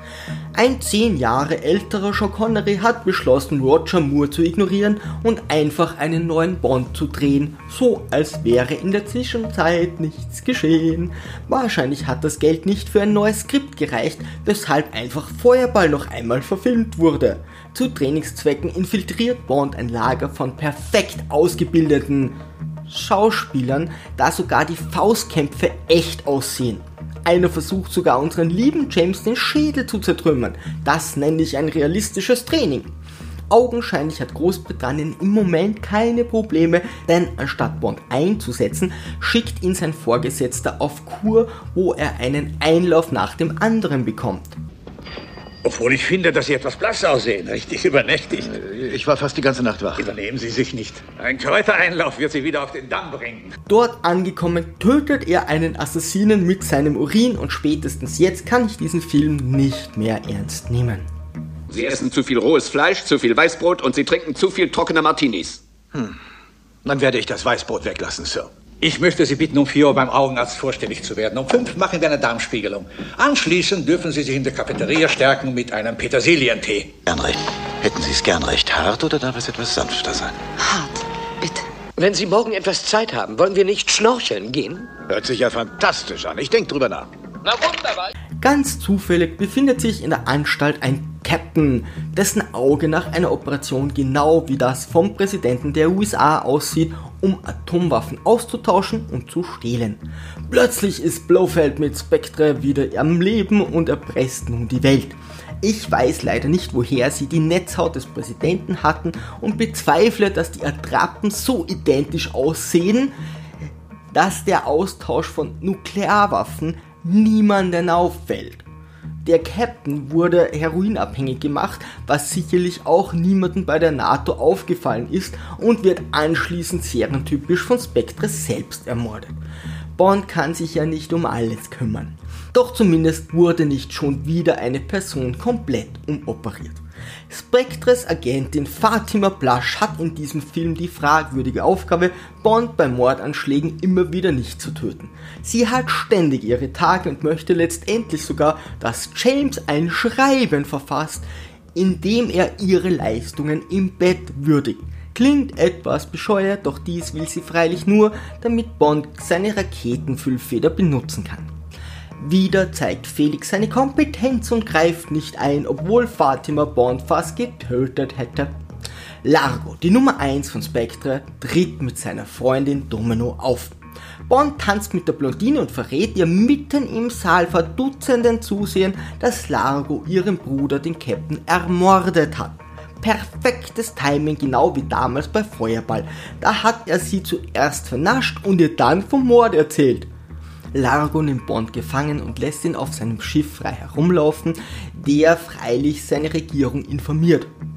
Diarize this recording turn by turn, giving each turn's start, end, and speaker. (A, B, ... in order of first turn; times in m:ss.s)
0:00.5-0:22.3 A
0:22.9-0:32.9 A
0:33.5-0:44.5 A
0:45.6-0:48.6 B
0:48.4-0:50.1 C
0:50.0-0:53.5 B
0:53.7-1:01.1 A
1:01.7-1:05.6 D
1:06.8-1:08.5 C
1:08.8-1:16.9 B
1:17.0-1:20.4 C
1:20.6-1:24.9 E
1:25.1-1:27.1 C
1:28.4-1:53.1 A
1:54.1-1:58.6 A
1:59.2-2:09.3 A
2:10.0-2:41.5 A
2:42.2-2:48.5 A
2:49.2-2:53.7 A
2:54.3-3:10.1 A
3:10.7-3:17.5 A